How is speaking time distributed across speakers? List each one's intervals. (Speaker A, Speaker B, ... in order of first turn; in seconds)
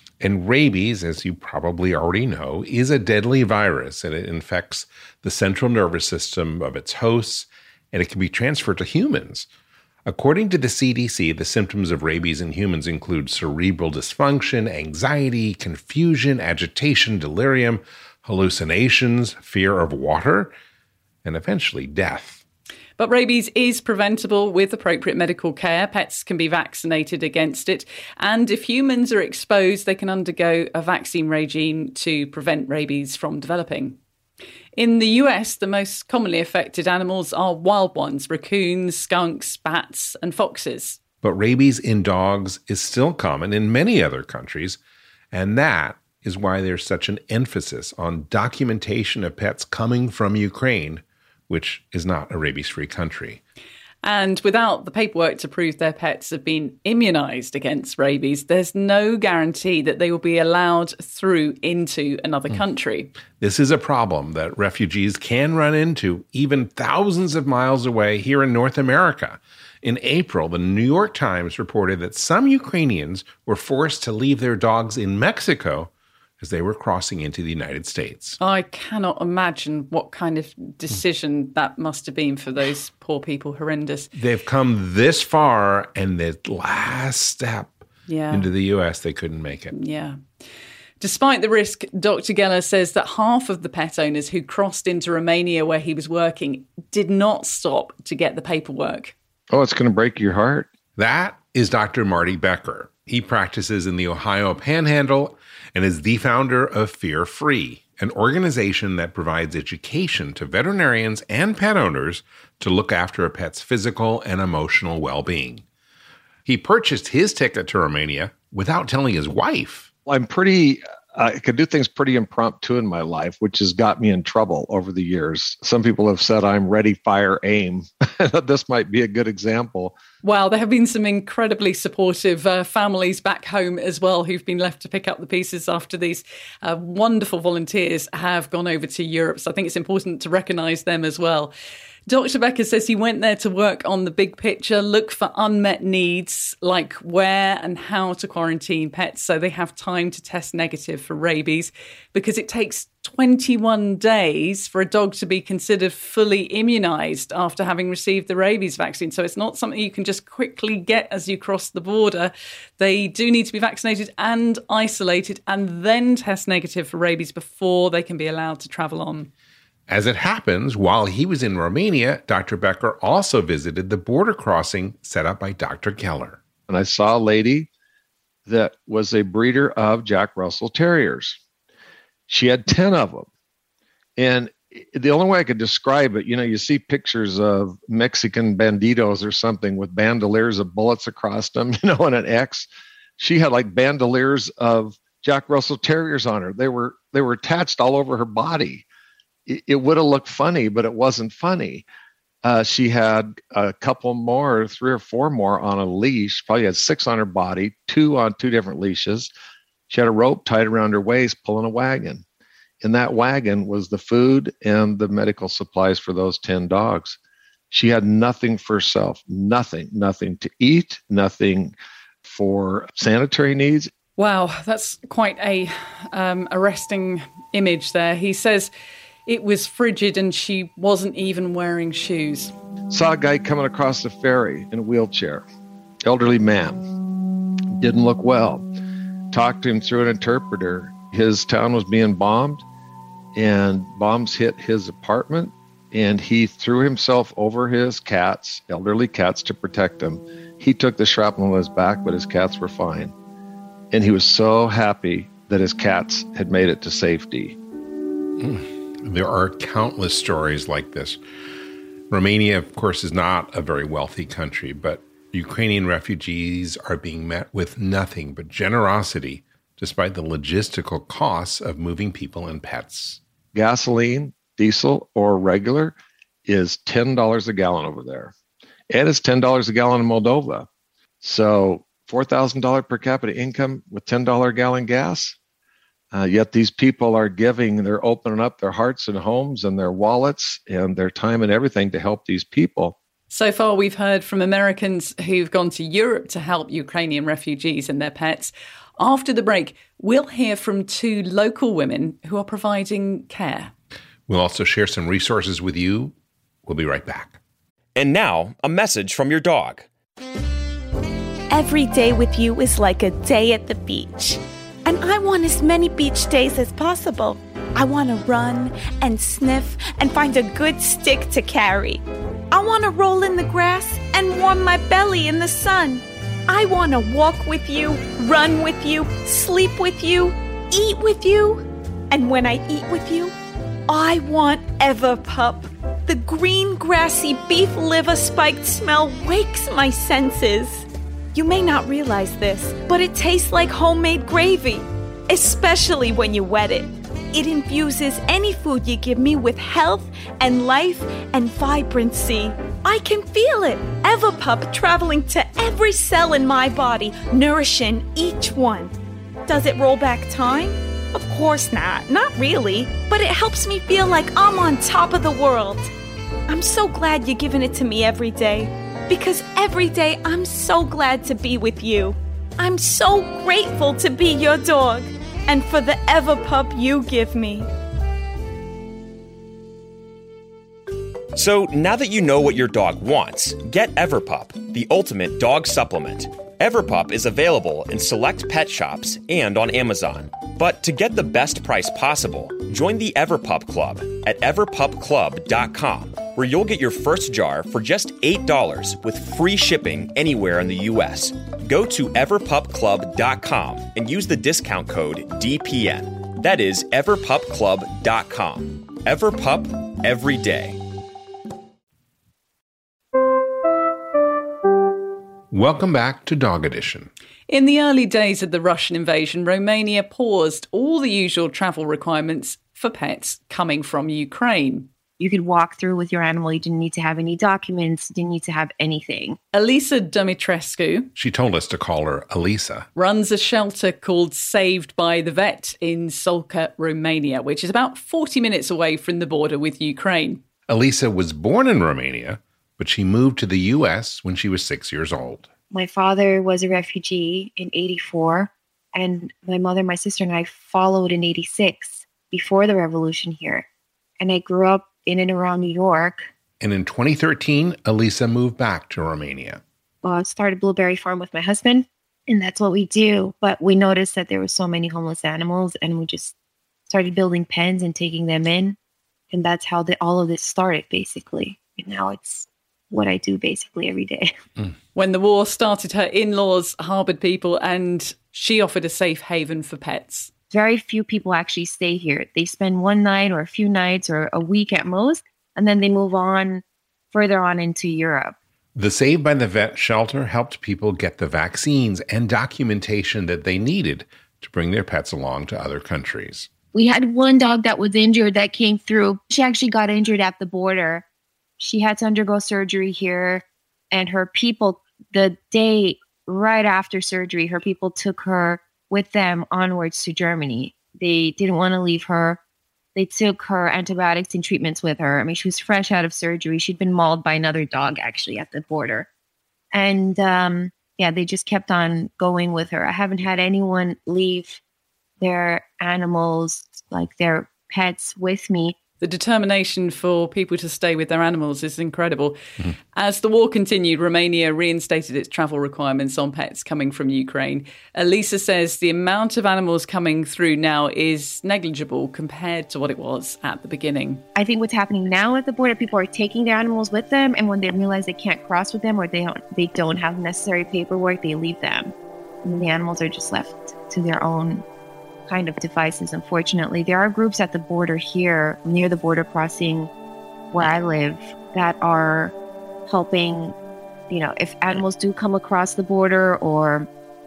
Speaker A: 0.2-9.5, 10.1-20.5, 21.2-22.4, 41.2-44.8, 45.3-53.4, 63.4-78.4, 84.1-89.7, 101.0-115.6, 116.5-119.9, 169.9-176.4, 258.4-261.2, 262.1-273.2, 304.3-306.1, 306.7-307.4, 415.5-417.1, 431.2-432.9, 440.7-445.5, 456.6-459.6, 488.8-496.5
Speaker B: 23.0-34.0, 34.8-41.0, 54.0-63.1, 78.4-84.1, 88.1-88.5, 89.7-90.2, 91.0-99.1, 130.2-141.5, 142.1-169.3, 224.2-228.7, 229.3-232.5, 293.3-303.7, 417.5-424.9, 429.5-431.1, 433.0-440.4, 474.9-480.3, 529.0-532.4, 532.9-544.2
Speaker C: 99.5-100.7, 120.1-129.9, 176.7-177.7, 178.5-181.4, 182.3-183.3, 184.2-198.8, 199.5-201.9, 202.4-209.3, 209.9-212.2, 212.8-217.2, 217.7-221.7, 222.2-223.9, 232.9-235.4, 236.1-236.8, 237.8-238.7, 239.3-242.7, 243.3-253.1, 253.9-257.6, 273.5-278.3, 278.9-280.7, 281.2-285.4, 286.1-292.9
Speaker D: 307.9-309.9, 381.4-410.8
Speaker E: 311.5-333.3, 333.9-358.9, 359.5-365.9, 366.5-377.7
Speaker F: 425.2-429.4, 445.7-453.7, 454.2-456.3, 460.0-466.4, 466.9-468.8, 469.3-474.4, 480.5-488.4, 496.7-501.1, 501.6-512.4, 513.0-519.1, 519.7-524.6, 525.2-528.8, 544.4-554.6, 555.3-559.9, 560.5-562.4, 562.9-563.6, 564.1-566.9